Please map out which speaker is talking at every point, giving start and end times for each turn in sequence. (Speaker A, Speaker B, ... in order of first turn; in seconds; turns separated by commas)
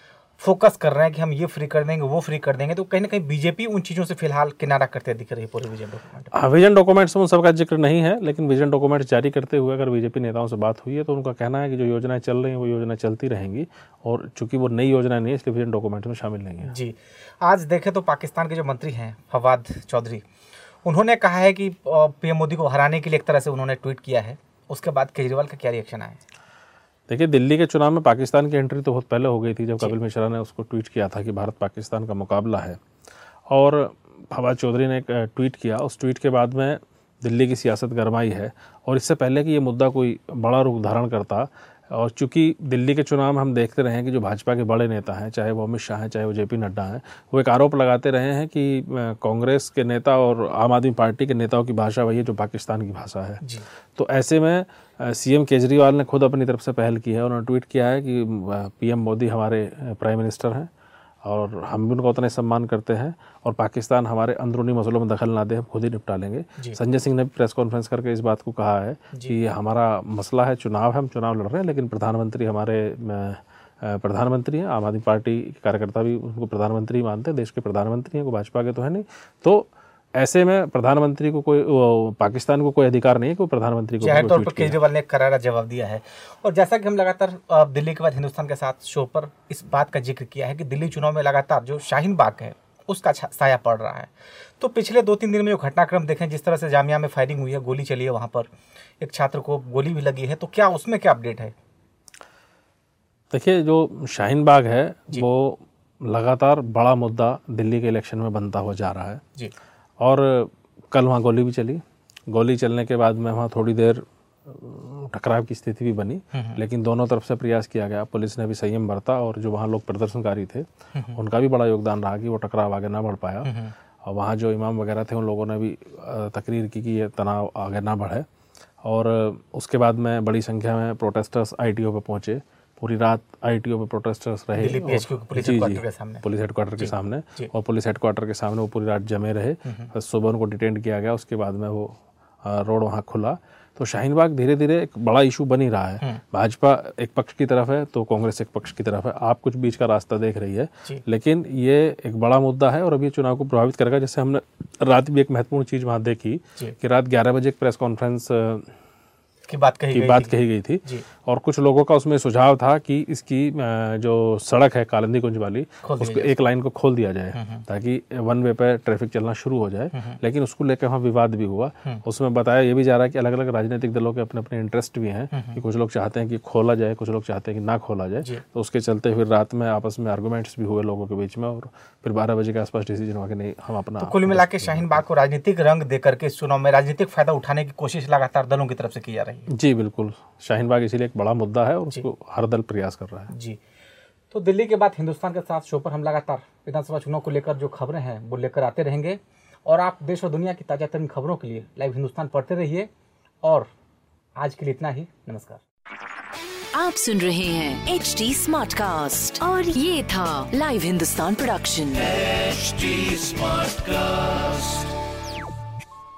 Speaker A: 0.4-6.3, Speaker B: 6.3-16.8, Speaker A: 16.6-20.2, Speaker A: 20.8-26.2, Speaker B: 27.1-32.8, Speaker B: 33.5-53.4, Speaker A: 53.4-53.7, Speaker B: 53.9-60.7, Speaker B: 61.2-84.8, Speaker A: 69.1-69.4, Speaker A: 84.0-101.5, Speaker B: 103.3-109.2, Speaker B: 110.0-128.2, Speaker A: 116.3-116.6, Speaker A: 120.9-121.2, Speaker A: 123.4-123.7, Speaker B: 128.8-158.7, Speaker A: 134.5-136.2, Speaker A: 136.8-137.5, Speaker A: 139.6-139.9, Speaker A: 159.5-161.1, Speaker B: 159.9-185.0, Speaker A: 165.8-166.5, Speaker A: 167.3-167.7, Speaker A: 169.9-170.2, Speaker A: 175.3-175.6, Speaker A: 184.0-189.5, Speaker B: 189.5-193.3, Speaker A: 193.3-193.6, Speaker A: 194.3-202.9, Speaker A: 203.4-203.7, Speaker A: 204.4-205.6, Speaker C: 206.8-214.9